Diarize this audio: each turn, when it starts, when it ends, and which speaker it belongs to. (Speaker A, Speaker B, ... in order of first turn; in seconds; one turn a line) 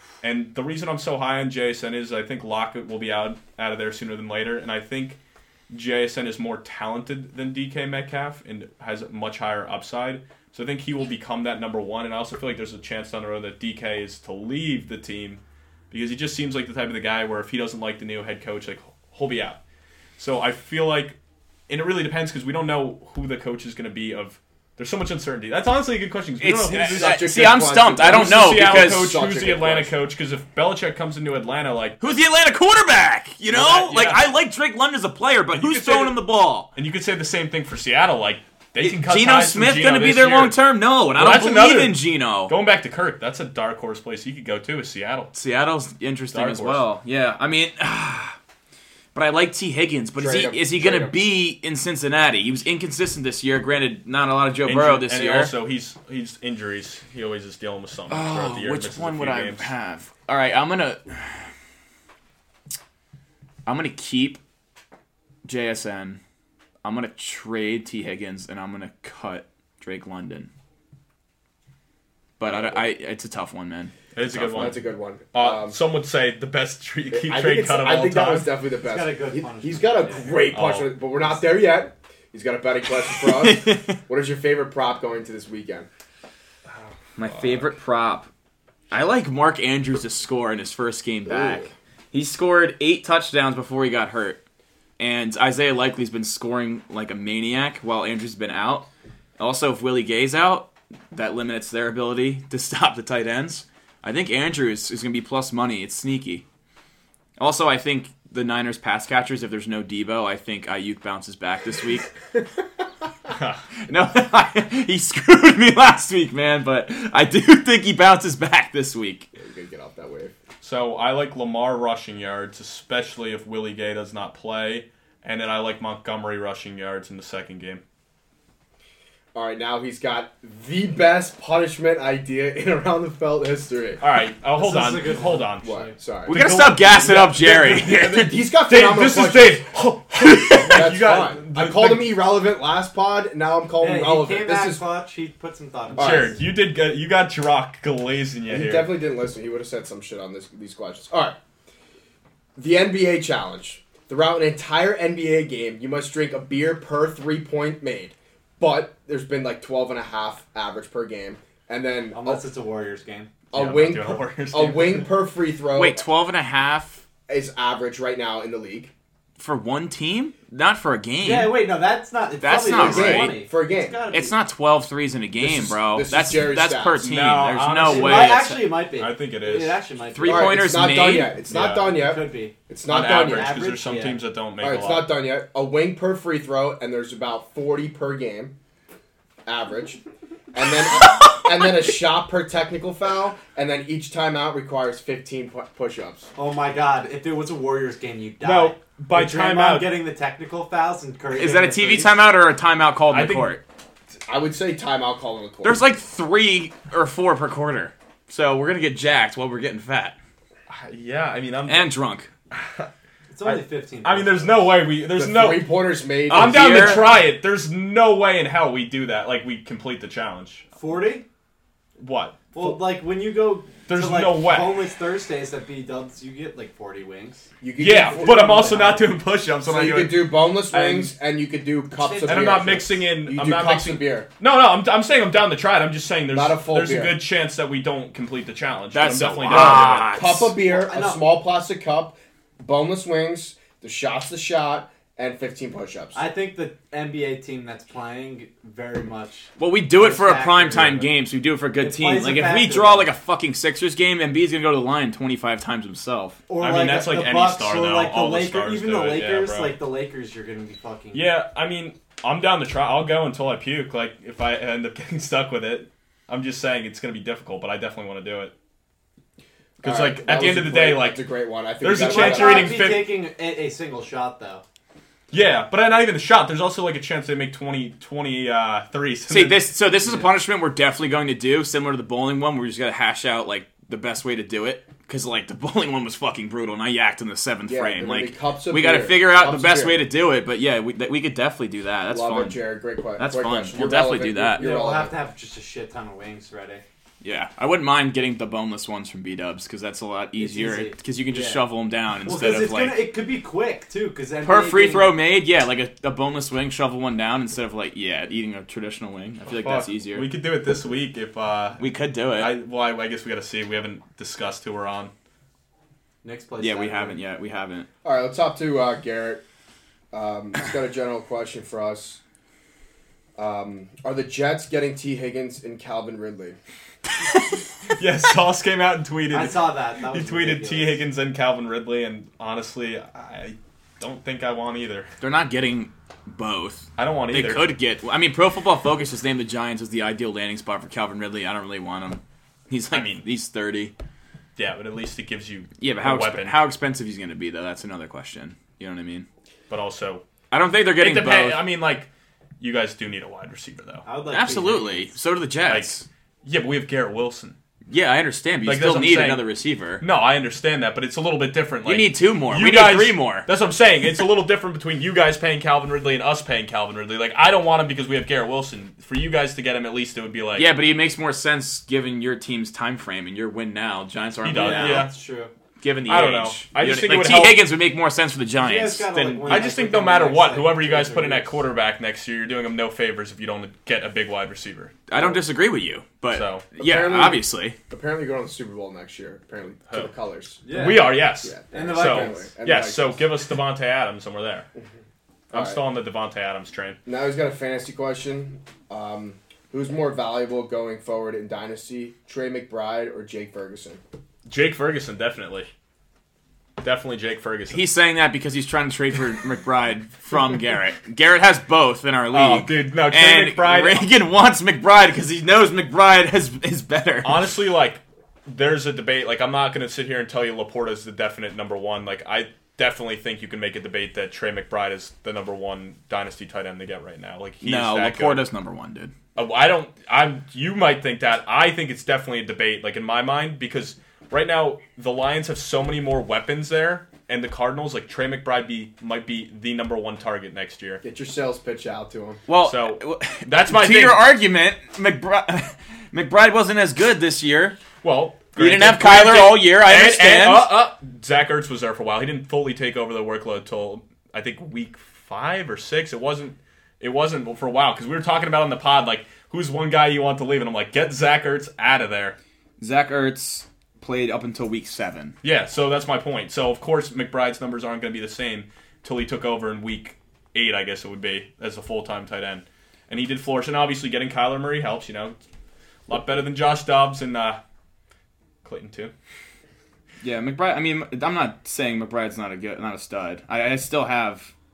Speaker A: 0.2-5.2
Speaker A: 5.7-19.6
Speaker A: 20.2-21.2
Speaker A: 21.7-27.4
Speaker B: 26.4-29.1
Speaker C: 26.9-29.9
Speaker A: 28.0-32.2
Speaker B: 32.0-36.7
Speaker A: 33.5-34.3
Speaker A: 35.5-36.2
Speaker A: 36.8-40.6
Speaker B: 38.8-42.5
Speaker A: 41.2-45.3
Speaker B: 45.3-48.4
Speaker A: 46.3-46.8
Speaker B: 49.1-55.5
Speaker C: 50.2-51.2
Speaker A: 54.7-59.7
Speaker B: 58.1-61.5
Speaker B: 63.7-64.4
Speaker B: 65.5-66.2
Speaker B: 66.8-70.5
Speaker B: 72.4-74.8
Speaker A: 74.2-78.5
Speaker C: 74.5-75.8
Speaker C: 77.1-85.9
Speaker D: 78.8-80.5
Speaker A: 80.5-81.0
Speaker B: 83.3-84.0
Speaker A: 86.7-87.7
Speaker B: 87.2-88.3
Speaker B: 88.9-94.4
Speaker C: 91.3-91.7
Speaker B: 95.0-106.5
Speaker B: 107.4-112.1
Speaker A: 113.3-113.6
Speaker B: 113.9-119.3
Speaker C: 119.4-120.3
Speaker A: 120.6-127.8
Speaker C: 129.3-134.0
Speaker A: 134.0-135.8
Speaker D: 134.6-135.9
Speaker C: 135.6-136.4
Speaker A: 136.3-142.2
Speaker B: 136.3-138.3
Speaker C: 137.4-139.7
Speaker C: 140.3-144.8
Speaker D: 143.8-146.4
Speaker C: 146.0-146.3
Speaker A: 146.0-148.9
Speaker C: 148.5-151.4
Speaker C: 152.6-162.4
Speaker D: 162.1-163.3
Speaker C: 163.5-166.1
Speaker A: 163.5-165.1
Speaker B: 165.8-167.0
Speaker C: 167.3-168.9
Speaker B: 169.4-171.7
Speaker D: 171.2-174.3
Speaker B: 172.4-173.4
Speaker C: 172.7-174.0
Speaker B: 174.1-178.8
Speaker C: 175.4-177.0
Speaker A: 177.0-179.8
Speaker D: 177.8-180.7
Speaker B: 180.1-181.4
Speaker C: 180.2-183.6
Speaker A: 181.5-181.9
Speaker D: 181.7-184.2
Speaker A: 182.9-185.1
Speaker C: 184.6-188.6
Speaker C: 189.5-190.0
Speaker C: 190.5-196.3
Speaker D: 196.4-202.2
Speaker A: 198.4-200.0
Speaker B: 201.3-203.6
Speaker A: 203.1-203.6
Speaker C: 204.3-205.8
Speaker B: 205.6-210.2
Speaker A: 210.7-211.9
Speaker B: 211.7-212.3
Speaker A: 212.5-212.9
Speaker D: 213.3-214.7
Speaker A: 213.4-215.8
Speaker C: 215.1-217.2
Speaker B: 216.3-217.1
Speaker A: 216.3-220.7
Speaker D: 220.8-221.3
Speaker A: 222.0-222.5
Speaker D: 222.5-229.1
Speaker A: 223.9-224.8
Speaker C: 227.6-229.1
Speaker A: 227.8-231.1
Speaker C: 229.7-234.3
Speaker D: 231.9-232.8
Speaker A: 232.2-240.4
Speaker C: 236.3-237.2
Speaker B: 238.9-240.5
Speaker C: 239.5-246.2
Speaker D: 240.7-241.3
Speaker D: 246.2-251.1
Speaker B: 249.6-256.4
Speaker D: 251.8-253.1
Speaker D: 256.5-261.3
Speaker A: 256.6-259.8
Speaker A: 261.1-268.5
Speaker A: 269.8-271.2
Speaker C: 269.8-272.9
Speaker A: 271.8-273.2
Speaker D: 271.9-274.6
Speaker A: 275.3-279.7
Speaker B: 279.3-292.6
Speaker C: 287.7-290.1
Speaker C: 292.1-295.1
Speaker B: 293.2-294.7
Speaker D: 294.6-296.8
Speaker B: 297.2-303.1
Speaker D: 300.4-301.6
Speaker D: 302.2-305.1
Speaker B: 304.4-310.3
Speaker A: 309.5-311.8
Speaker B: 311.8-312.6
Speaker A: 312.4-315.1
Speaker D: 316.2-317.2
Speaker B: 316.6-317.9
Speaker C: 318.0-319.4
Speaker C: 320.1-322.2
Speaker C: 323.4-326.6
Speaker A: 327.9-335.1
Speaker D: 329.3-331.0
Speaker B: 335.2-343.9
Speaker A: 337.0-337.7
Speaker A: 342.9-343.2
Speaker A: 344.6-346.6
Speaker B: 345.8-349.3
Speaker A: 349.7-350.2
Speaker B: 350.5-351.6
Speaker A: 351.0-352.1
Speaker A: 352.6-354.1
Speaker D: 354.1-355.1
Speaker B: 354.3-356.1
Speaker A: 355.7-357.6
Speaker B: 357.9-360.0
Speaker A: 358.6-359.5
Speaker A: 360.0-370.7
Speaker B: 361.9-363.5
Speaker B: 370.6-375.1
Speaker A: 374.4-375.1
Speaker D: 374.5-375.5
Speaker B: 375.8-379.7
Speaker A: 376.1-377.6
Speaker D: 378.6-381.6
Speaker A: 379.4-384.9
Speaker B: 385.1-387.8
Speaker A: 386.3-386.6
Speaker C: 386.8-390.6
Speaker D: 390.6-392.5
Speaker A: 390.7-394.7
Speaker C: 391.4-393.3
Speaker A: 395.5-397.0
Speaker C: 395.5-395.8
Speaker C: 397.1-404.0
Speaker A: 404.5-405.7
Speaker A: 406.8-407.8
Speaker B: 407.7-417.4
Speaker A: 412.3-414.1
Speaker A: 417.2-428.5
Speaker B: 427.6-429.1
Speaker A: 429.4-441.0
Speaker C: 441.0-442.4
Speaker B: 442.5-447.8
Speaker A: 442.6-444.3
Speaker A: 448.0-462.4
Speaker B: 448.6-450.7
Speaker B: 462.8-465.4
Speaker A: 465.4-475.4
Speaker A: 476.1-477.6
Speaker A: 478.6-479.1
Speaker B: 480.2-484.5